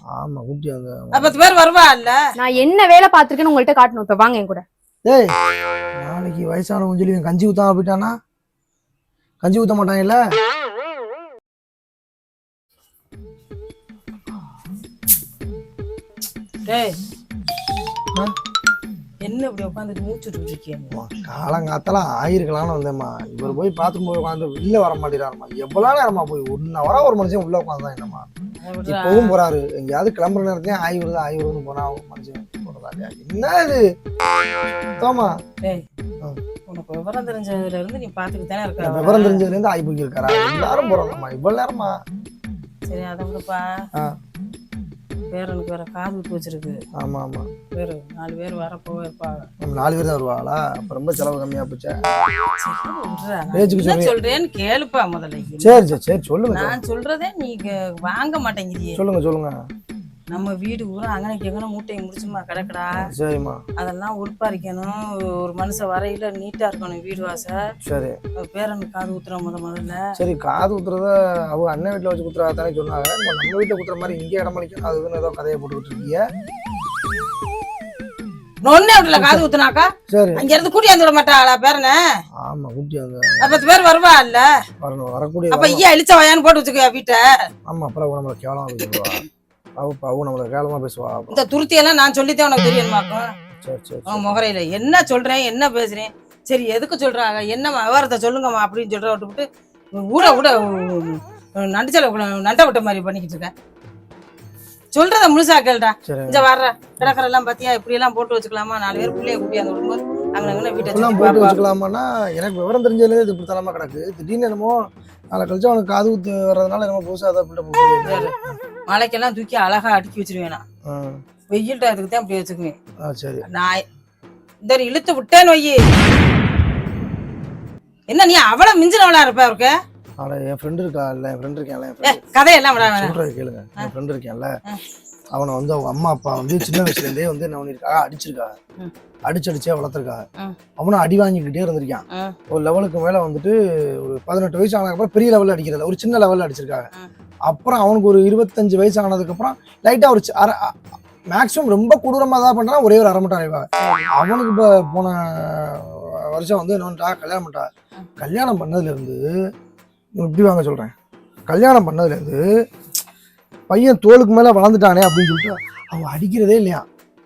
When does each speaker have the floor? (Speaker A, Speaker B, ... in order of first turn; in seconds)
Speaker A: 0.1-1.4, 5.0-5.3, 6.0-8.1, 9.4-10.2, 20.9-28.2, 28.8-33.8, 35.0-35.4, 38.8-42.0, 47.0-47.5, 49.6-52.0, 53.5-54.1, 55.6-56.8, 59.0-59.5, 63.0-63.6, 67.8-68.2, 70.2-76.2, 79.1-79.4, 80.1-80.5, 82.4-83.6, 84.8-85.8, 87.7-89.2, 89.8-91.4, 93.6-94.3, 106.0-106.5, 110.4-114.8, 115.3-118.6, 120.9-121.2, 123.0-123.4, 130.2-132.2, 132.8-134.5, 135.3-138.5, 139.3-140.2, 140.8-146.9, 147.5-150.8, 151.3-157.7, 158.2-159.3, 160.2-160.9, 161.5-162.4, 163.7-166.8
Speaker B: 1.1-2.2, 16.6-17.0, 19.2-20.9, 28.6-29.4, 36.7-39.5, 42.9-43.6, 45.3-46.8, 47.7-49.5, 52.5-56.0, 56.5-59.0, 60.3-63.1, 63.8-67.6, 68.3-70.0, 78.6-82.0, 83.4-84.5, 85.5-87.4, 88.8-89.2, 91.3-93.3, 94.1-103.5, 104.9-111.6, 118.0-118.3, 118.9-120.6, 121.5-122.8, 123.4-123.8, 124.6-125.8, 128.1-129.7, 132.0-133.2, 153.8-154.1
Speaker C: 2.4-4.6